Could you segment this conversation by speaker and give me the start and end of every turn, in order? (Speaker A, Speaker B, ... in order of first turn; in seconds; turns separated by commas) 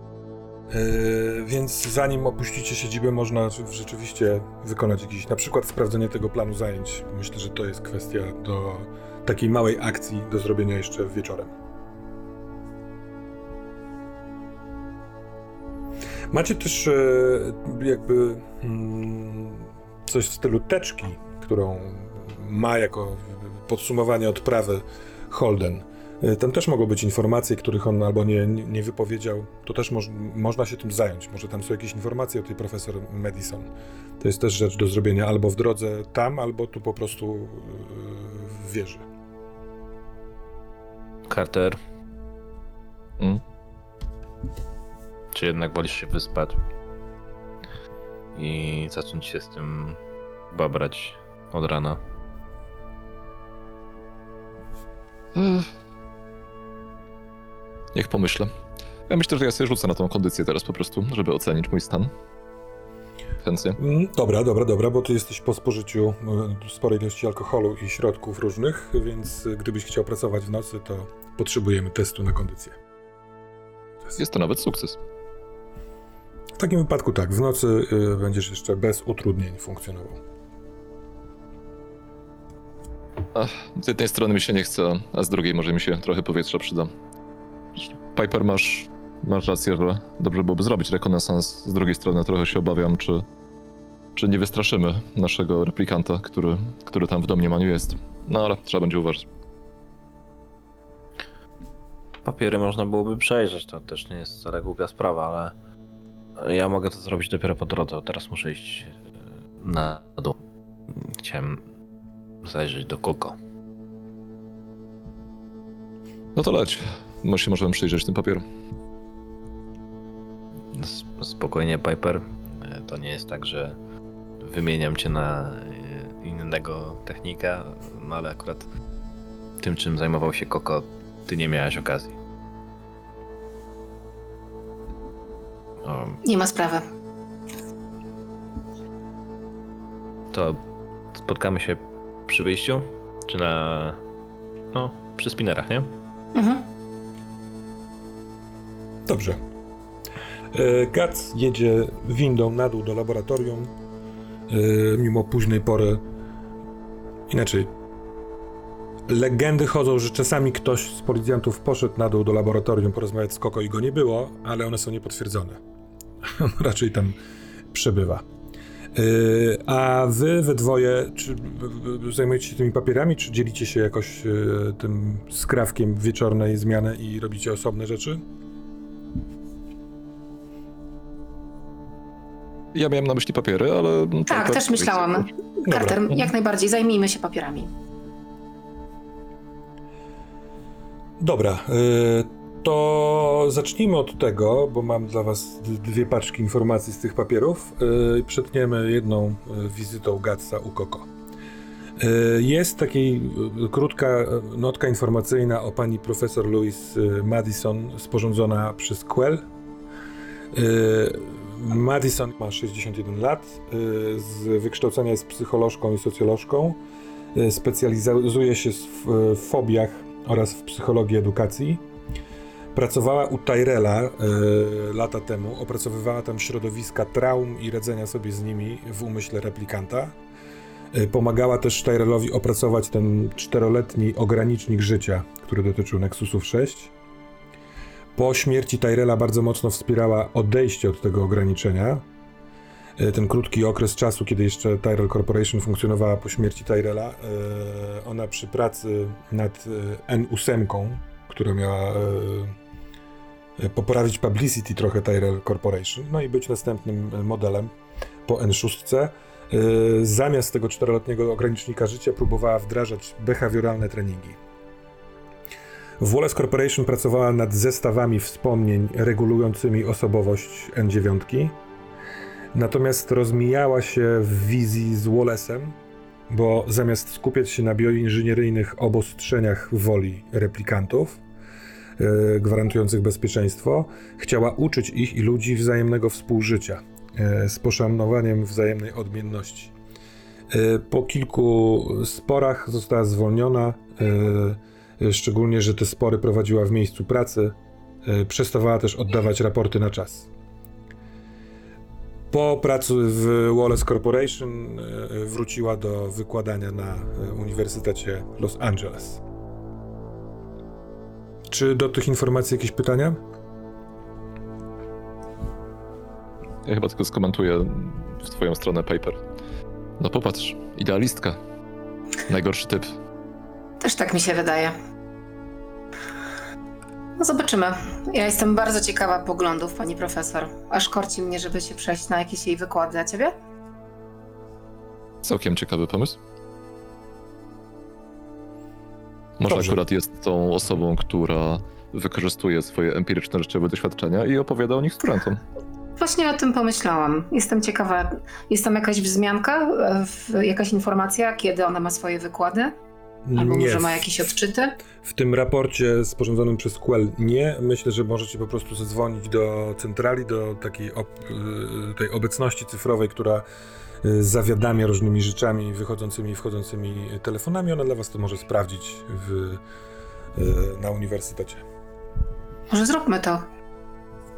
Speaker A: 0.7-11.5, Speaker A: 16.3-39.0, Speaker B: 41.3-41.8, Speaker B: 45.3-46.6, Speaker B: 48.3-50.0, Speaker B: 50.5-52.0, Speaker C: 55.3-55.7, Speaker C: 57.9-58.5, Speaker C: 59.1-62.1, Speaker C: 63.4-63.8, Speaker A: 63.8-72.8, Speaker C: 74.2-75.0, Speaker A: 76.6-80.2, Speaker C: 83.3-86.9, Speaker C: 87.8-93.2, Speaker C: 94.2-99.2, Speaker B: 102.2-105.5, Speaker B: 106.4-109.0, Speaker B: 109.6-110.4, Speaker B: 110.9-111.6, Speaker B: 112.4-113.4, Speaker C: 116.3-118.4, Speaker B: 120.7-123.8, Speaker B: 124.4-128.7, Speaker B: 129.6-132.2, Speaker B: 135.8-136.2, Speaker D: 136.2-136.9, Speaker B: 140.3-140.6, Speaker B: 141.1-144.0, Speaker B: 144.7-145.9, Speaker D: 146.3-146.6, Speaker A: 149.1-149.4, Speaker A: 150.5-153.7, Speaker A: 154.5-156.0, Speaker A: 157.3-157.7, Speaker A: 159.1-165.6, Speaker A: 166.2-167.2, Speaker A: 167.7-168.2, Speaker A: 168.9-178.2, Speaker C: 182.7-185.2, Speaker D: 184.3-187.7, Speaker A: 185.6-186.0, Speaker A: 191.2-201.1, Speaker A: 202.0-209.4, Speaker A: 210.5-216.8, Speaker A: 217.3-221.8, Speaker A: 222.7-230.1, Speaker A: 230.9-236.9, Speaker A: 238.2-242.0, Speaker A: 243.0-252.6, Speaker A: 253.6-257.7, Speaker A: 258.2-264.4, Speaker A: 266.0-271.6, Speaker A: 272.5-275.8, Speaker A: 276.3-281.2, Speaker A: 282.0-289.7, Speaker A: 290.5-300.3, Speaker A: 302.3-309.2, Speaker A: 311.5-313.2, Speaker C: 316.6-319.2, Speaker C: 320.0-321.4, Speaker C: 322.3-322.9, Speaker D: 323.8-324.8, Speaker D: 327.2-333.3, Speaker C: 335.2-336.2, Speaker C: 339.4-345.4, Speaker A: 339.5-339.8, Speaker D: 346.0-352.8, Speaker A: 353.2-354.2, Speaker D: 353.4-354.8, Speaker A: 355.0-363.4, Speaker A: 364.0-369.6, Speaker A: 370.3-371.6, Speaker D: 372.7-373.4